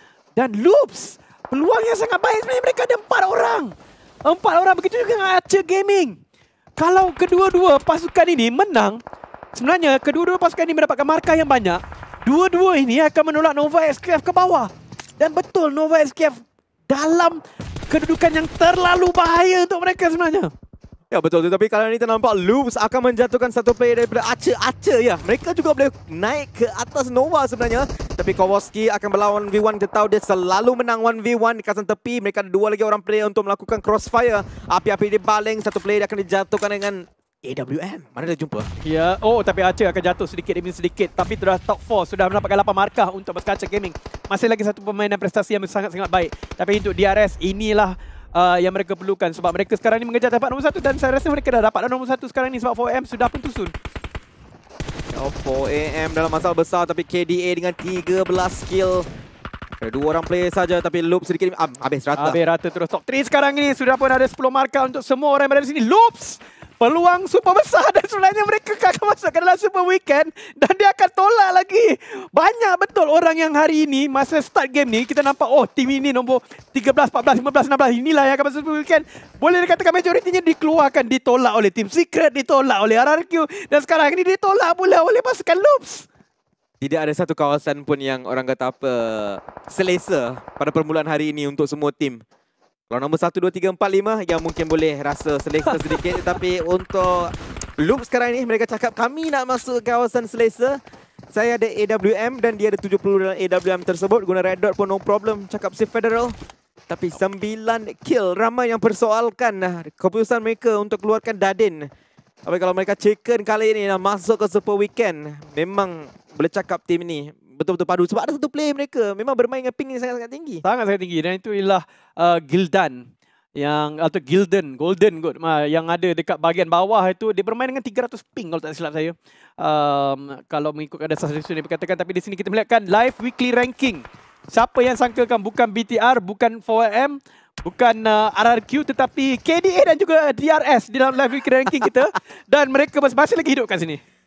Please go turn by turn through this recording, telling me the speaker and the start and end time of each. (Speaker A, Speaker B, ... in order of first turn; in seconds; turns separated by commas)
Speaker A: 0.3-3.8, Speaker A: 4.3-6.2, Speaker A: 6.8-9.0, Speaker A: 9.5-20.5, Speaker B: 21.1-38.7, Speaker A: 38.8-53.7, Speaker B: 55.1-59.1, Speaker B: 59.8-62.4, Speaker A: 62.2-86.1, Speaker B: 86.8-92.2, Speaker B: 92.9-100.8, Speaker A: 95.7-96.0, Speaker B: 101.3-106.3, Speaker B: 106.9-111.9, Speaker B: 112.5-120.6, Speaker A: 120.6-144.0